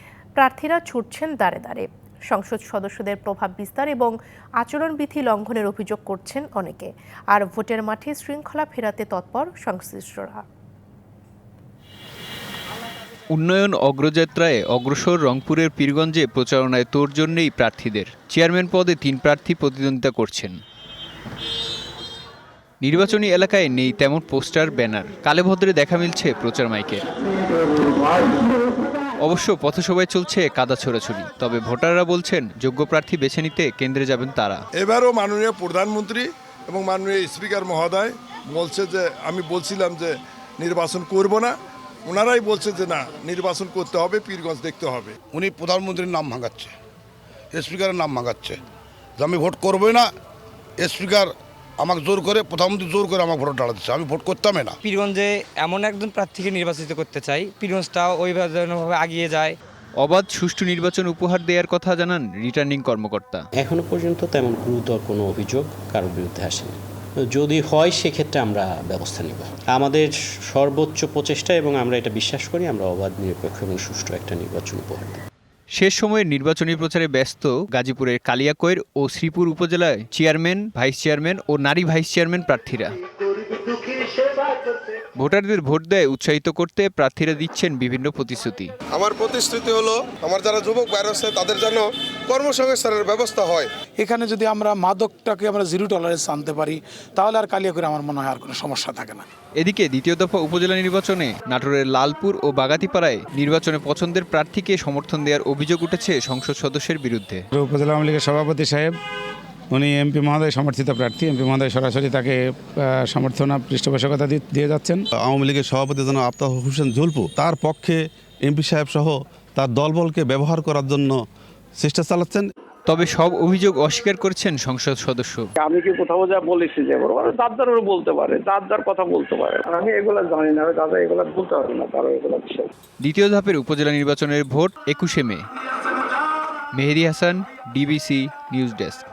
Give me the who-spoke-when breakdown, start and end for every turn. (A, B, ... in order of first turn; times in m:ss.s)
0:00.4-0:10.4 A
0:13.3-0:20.6 B
0:22.8-0:27.0 B
0:29.2-0:34.6 B
0:34.8-0:41.6 C
0:42.1-0:45.1 C
0:45.3-0:46.7 D
0:47.5-0:48.6 D
0:49.2-0:50.1 D
0:50.8-0:51.3 D
0:51.8-0:54.8 D
0:54.8-0:59.6 E
1:00.0-1:03.5 B
1:03.6-1:06.8 F
1:07.3-1:15.2 F
1:15.8-1:22.9 B
1:25.2-1:28.7 B
1:29.0-1:33.7 G
1:34.0-1:39.3 H
1:39.6-1:47.4 B
1:47.5-1:48.9 I
1:49.7-1:52.4 I
1:53.0-1:55.0 I
1:55.2-2:01.2 J
2:01.8-2:02.5 J
2:02.9-2:05.4 B
2:05.6-2:12.7 K
2:13.0-2:15.4 B
2:16.8-2:19.0 B